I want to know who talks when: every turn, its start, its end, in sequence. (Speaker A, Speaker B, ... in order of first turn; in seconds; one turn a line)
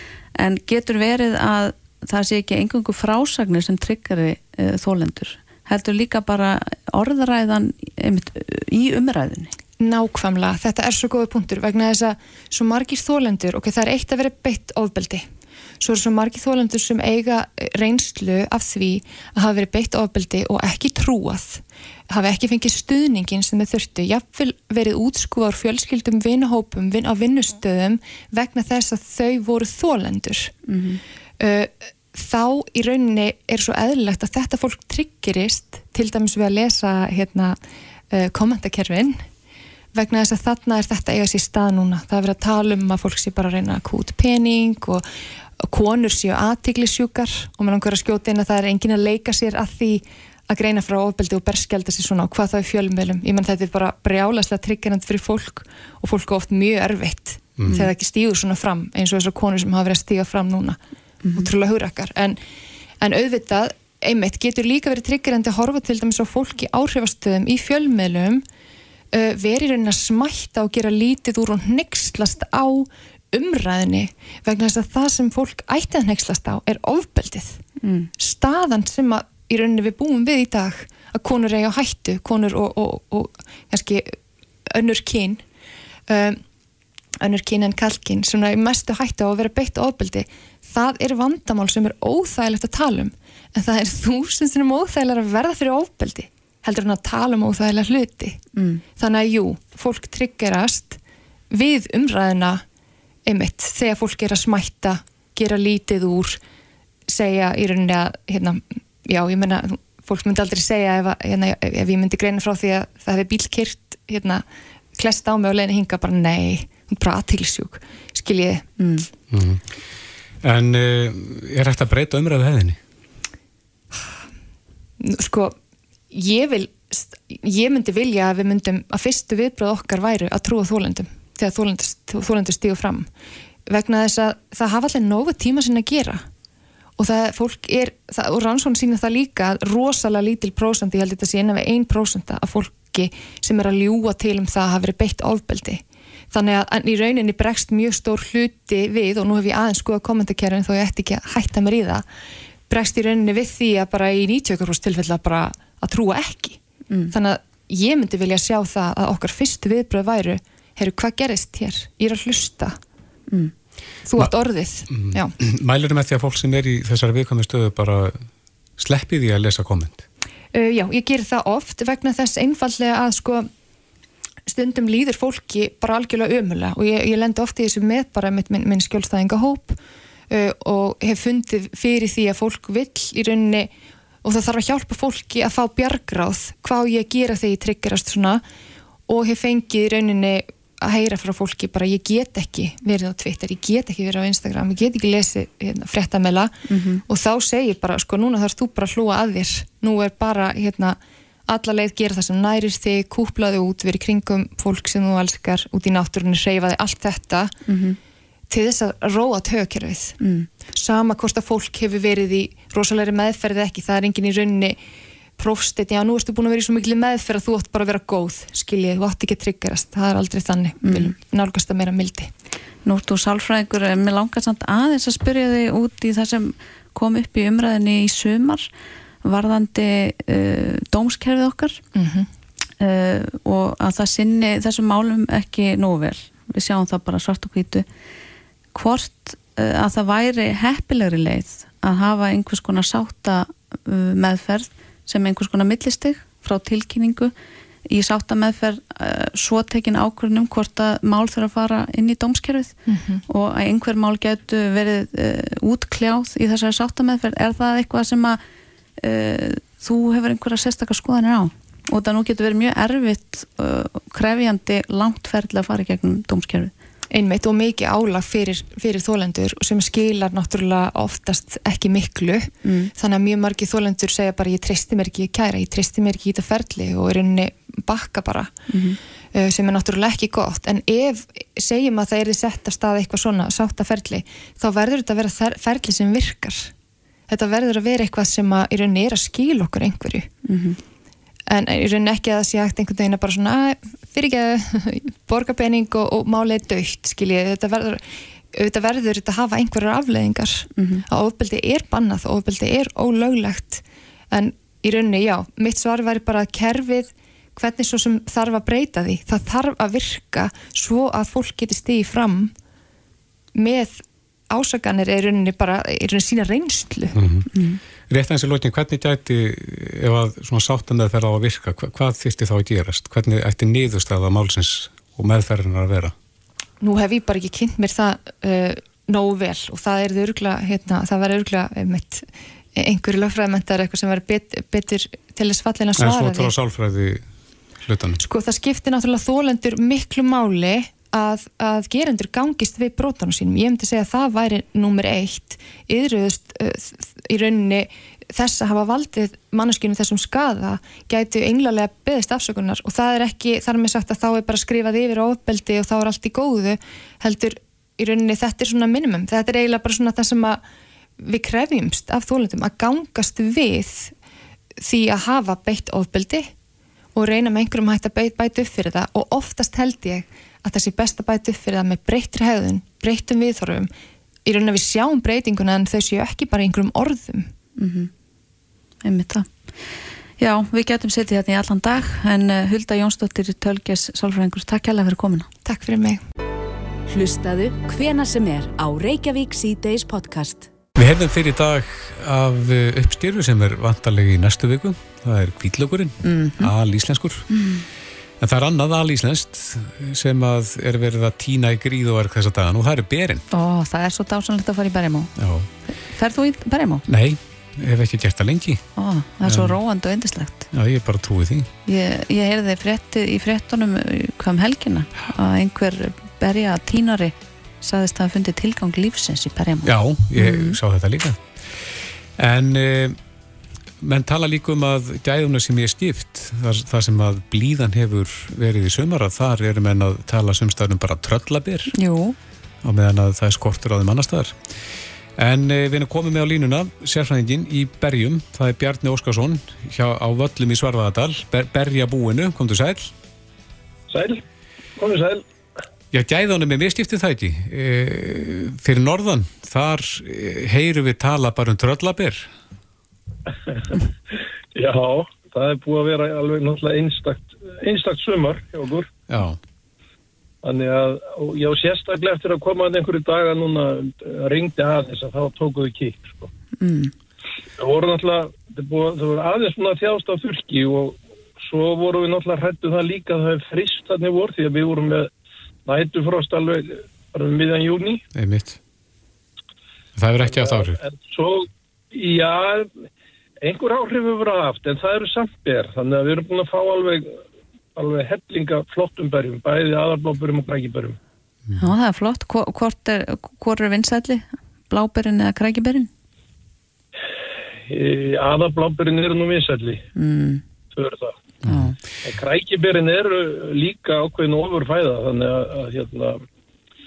Speaker A: 0.3-9.5
Speaker B: 9.8-15.3
Speaker B: 15.8-30.6
Speaker A: 30.7-31.0
Speaker B: 31.4-37.6
Speaker B: 38.1-39.2
Speaker B: 39.9-45.0
Speaker B: 45.6-60.8
Speaker A: 61.2-61.5
Speaker B: 61.4-62.4
Speaker B: 63.0-68.4
Speaker B: 69.1-77.6
Speaker A: 77.8-78.1
Speaker B: 78.2-85.4
Speaker B: 86.1-86.4
Speaker B: 87.2-98.4
Speaker A: 98.5-98.8
Speaker B: 99.0-101.0
Speaker B: 101.5-102.6
Speaker B: 103.3-106.4
Speaker B: 107.1-114.4
Speaker B: 115.0-118.7
Speaker A: 118.8-119.1
Speaker C: 119.3-119.7
Speaker C: 120.4-122.8
Speaker B: 125.0-125.5
Speaker B: 126.1-133.1
Speaker B: 133.7-136.3
Speaker B: 137.0-152.1
Speaker B: 152.7-156.6
Speaker B: 157.1-162.8
Speaker B: 164.1-165.3
Speaker C: 164.9-168.2
Speaker C: 168.8-170.0
Speaker B: 170.5-173.5
Speaker B: 174.5-179.8
Speaker B: 180.3-183.7
Speaker B: 184.2-188.4
Speaker B: 189.1-196.5
Speaker A: 196.7-197.0
Speaker B: 197.1-207.6
Speaker A: 207.7-208.0
Speaker B: 208.5-210.2
Speaker A: 210.2-210.5
Speaker B: 210.8-214.8
Speaker B: 215.4-222.3
Speaker A: 220.8-221.1
Speaker A: 222.8-228.7
Speaker A: 229.2-231.8
Speaker B: 231.9-232.3
Speaker A: 232.8-237.9
Speaker A: 238.7-247.3
Speaker A: 247.9-252.8
Speaker B: 252.9-253.2
Speaker A: 253.3-258.4
Speaker A: 259.0-266.7
Speaker B: 267.1-278.5
Speaker A: 272.6-272.9
Speaker A: 278.7-279.0
Speaker B: 279.3-286.7
Speaker B: 287.3-290.3
Speaker A: 290.4-290.8
Speaker B: 291.5-298.0
Speaker B: 298.5-312.5
Speaker A: 300.8-301.1
Speaker B: 313.6-317.2
Speaker C: 317.1-317.5
Speaker A: 317.5-317.8
Speaker C: 318.1-326.1
Speaker B: 326.8-336.5
Speaker C: 336.0-337.3
Speaker C: 337.8-338.2
Speaker B: 338.2-360.6
Speaker B: 361.2-364.1
Speaker B: 364.8-366.5
Speaker B: 367.1-373.9
Speaker B: 374.4-377.5
Speaker A: 377.8-378.1
Speaker A: 379.0-379.5
Speaker A: 380.4-385.5
Speaker B: 385.6-386.2
Speaker D: 387.1-390.7
Speaker C: 391.0-397.5
Speaker A: 396.2-396.7
Speaker A: 397.5-397.8
Speaker C: 398.4-403.4
Speaker A: 403.5-405.3
Speaker C: 405.4-405.7
Speaker A: 405.9-407.1
Speaker C: 407.1-408.8
Speaker A: 409.0-410.7
Speaker C: 409.4-409.8
Speaker C: 410.7-411.7
Speaker A: 411.9-420.8
Speaker C: 419.8-421.4
Speaker C: 422.4-423.2
Speaker C: 424.0-431.9
Speaker A: 431.9-432.4
Speaker C: 432.8-434.6
Speaker C: 435.4-443.1
Speaker E: 444.1-444.4
Speaker E: 445.0-445.4
Speaker C: 446.1-452.5
Speaker E: 453.7-459.1
Speaker C: 459.3-459.6
Speaker E: 460.6-466.5
Speaker A: 466.8-467.1
Speaker E: 467.8-475.3
Speaker E: 475.9-478.2
Speaker C: 478.3-478.8
Speaker C: 480.2-481.0
Speaker E: 480.4-483.1
Speaker E: 483.6-487.4
Speaker E: 487.9-491.2
Speaker A: 491.8-496.1
Speaker E: 497.9-500.1
Speaker A: 500.2-500.6
Speaker E: 500.9-501.4
Speaker C: 501.6-502.0
Speaker A: 501.7-502.0
Speaker E: 502.2-506.4